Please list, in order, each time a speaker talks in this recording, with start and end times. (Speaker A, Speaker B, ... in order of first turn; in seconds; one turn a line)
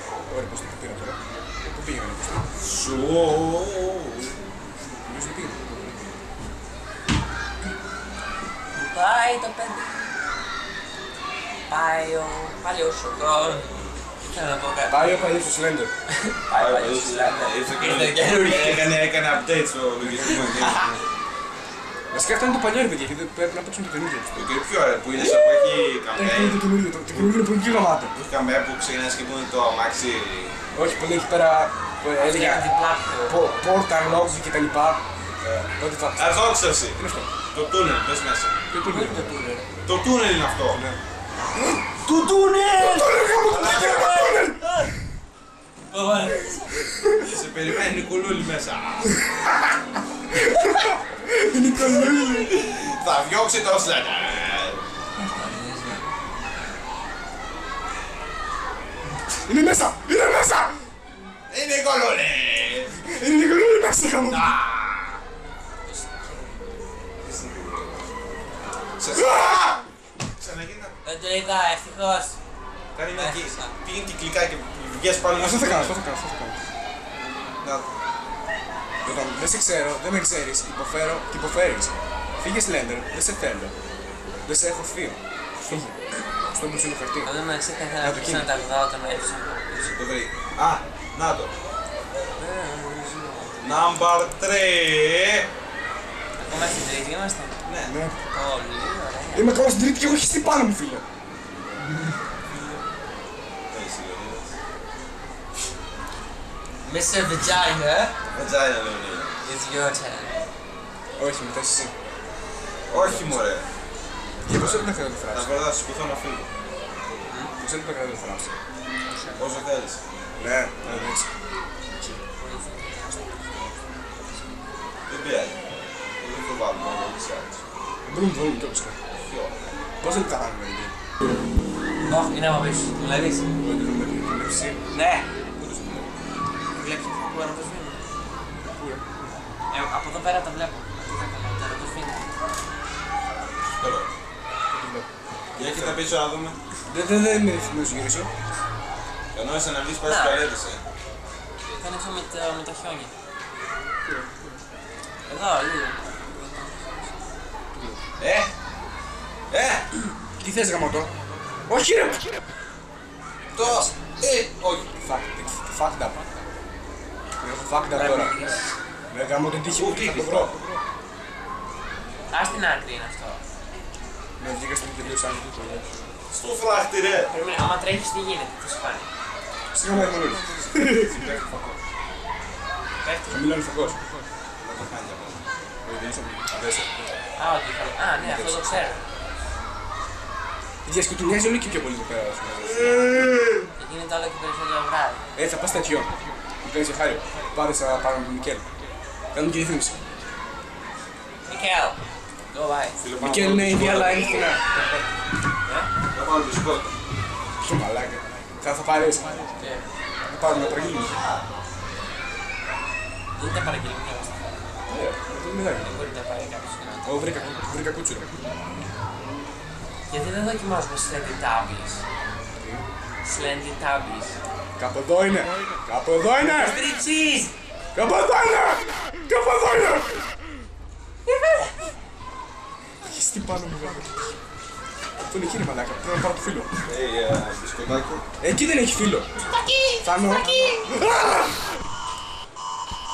Speaker A: 0.3-2.5
Speaker B: 2.6-4.3
Speaker A: 5.0-6.0
Speaker C: 8.7-9.9
Speaker C: 11.7-15.5
Speaker A: 14.9-15.9
Speaker C: 16.1-18.9
Speaker B: 16.5-20.8
Speaker A: 20.0-21.0
Speaker C: 20.5-20.9
Speaker A: 22.1-24.5
Speaker B: 24.3-27.3
Speaker A: 25.2-25.4
Speaker A: 26.1-28.1
Speaker B: 28.1-30.6
Speaker A: 30.7-32.7
Speaker C: 32.2-33.7
Speaker A: 33.3-35.0
Speaker A: 35.6-37.3
Speaker B: 36.2-38.5
Speaker A: 38.7-39.2
Speaker C: 38.7-39.7
Speaker B: 39.8-40.8
Speaker A: 40.7-41.0
Speaker C: 41.5-44.9
Speaker A: 42.7-45.0
Speaker B: 43.4-44.3
Speaker C: 45.9-46.8
Speaker A: 46.9-47.4
Speaker B: 47.2-49.2
Speaker A: 49.1-49.6
Speaker A: 50.3-52.6
Speaker B: 52.5-54.8
Speaker C: 55.2-56.2
Speaker A: 59.4-60.9
Speaker B: 61.5-63.0
Speaker A: 62.9-64.5
Speaker B: 64.3-65.2
Speaker C: 65.8-66.7
Speaker B: 67.2-68.1
Speaker B: 69.0-69.6
Speaker A: 69.1-69.8
Speaker B: 70.4-71.0
Speaker C: 71.0-72.3
Speaker B: 72.9-76.0
Speaker C: 73.1-73.7
Speaker A: 75.3-76.6
Speaker A: 79.0-83.7
Speaker A: 84.5-87.3
Speaker C: 87.2-90.0
Speaker A: 88.0-88.5
Speaker B: 89.9-91.5
Speaker C: 92.3-93.8
Speaker B: 93.6-95.5
Speaker C: 96.4-97.6
Speaker B: 97.7-97.9
Speaker A: 97.8-98.2
Speaker C: 98.3-99.5
Speaker A: 99.3-101.0
Speaker B: 103.7-104.5
Speaker C: 106.8-108.2
Speaker B: 108.3-109.3
Speaker C: 109.4-110.3
Speaker A: 111.2-111.9
Speaker A: 112.9-113.4
Speaker B: 112.9-113.6
Speaker A: 114.4-115.5
Speaker B: 114.5-116.5
Speaker A: 117.6-118.5
Speaker C: 119.1-119.6
Speaker B: 119.4-120.0
Speaker A: 120.3-121.3
Speaker B: 120.8-121.1
Speaker C: 122.0-124.8
Speaker B: 125.1-125.6
Speaker B: 126.2-127.6
Speaker A: 128.0-129.0
Speaker B: 129.1-129.8
Speaker A: 130.0-131.0
Speaker C: 132.0-133.4
Speaker A: 133.6-134.8
Speaker C: 134.9-135.3
Speaker A: 135.6-136.1
Speaker C: 136.7-138.0
Speaker A: 138.6-139.2
Speaker C: 139.7-142.4
Speaker B: 143.7-144.1
Speaker A: 144.7-146.0
Speaker B: 145.6-146.6
Speaker A: 146.9-148.3
Speaker B: 149.3-150.8
Speaker C: 150.1-150.4
Speaker C: 151.8-153.1
Speaker A: 154.1-154.6
Speaker C: 155.3-157.1
Speaker A: 157.7-158.0
Speaker B: 158.2-158.5
Speaker B: 159.5-159.8
Speaker A: 160.4-161.1
Speaker A: 161.7-162.4
Speaker B: 163.6-164.9
Speaker A: 165.0-166.2
Speaker A: 167.4-168.3
Speaker C: 167.9-168.8
Speaker A: 169.1-170.6
Speaker B: 169.7-170.6
Speaker C: 172.3-173.4
Speaker A: 174.4-175.8
Speaker B: 176.3-177.3
Speaker C: 177.3-179.1
Speaker A: 179.7-181.1
Speaker B: 179.9-181.8
Speaker C: 183.0-183.5
Speaker A: 183.3-184.0
Speaker B: 184.6-185.5
Speaker A: 185.8-187.1
Speaker C: 187.3-189.1
Speaker A: 188.2-188.8
Speaker A: 190.8-193.6
Speaker B: 192.8-193.1
Speaker C: 193.8-195.2
Speaker A: 195.3-198.7
Speaker A: 199.3-200.1
Speaker C: 201.5-203.0
Speaker B: 203.0-204.9
Speaker A: 203.2-204.7
Speaker C: 205.6-205.9
Speaker B: 206.1-206.9
Speaker A: 207.6-209.5
Speaker C: 209.6-209.8
Speaker A: 210.3-211.2
Speaker B: 210.4-211.4
Speaker C: 213.3-214.6
Speaker A: 214.9-215.9
Speaker C: 215.8-217.6
Speaker A: 217.0-218.3
Speaker C: 220.1-222.0
Speaker A: 222.6-222.8
Speaker C: 223.2-224.4
Speaker A: 224.8-226.8
Speaker C: 226.5-227.5
Speaker A: 227.9-230.3
Speaker C: 231.3-231.6
Speaker A: 233.0-234.2
Speaker A: 235.3-236.7
Speaker B: 236.8-238.2
Speaker A: 238.4-239.3
Speaker C: 239.4-240.9
Speaker A: 240.0-241.8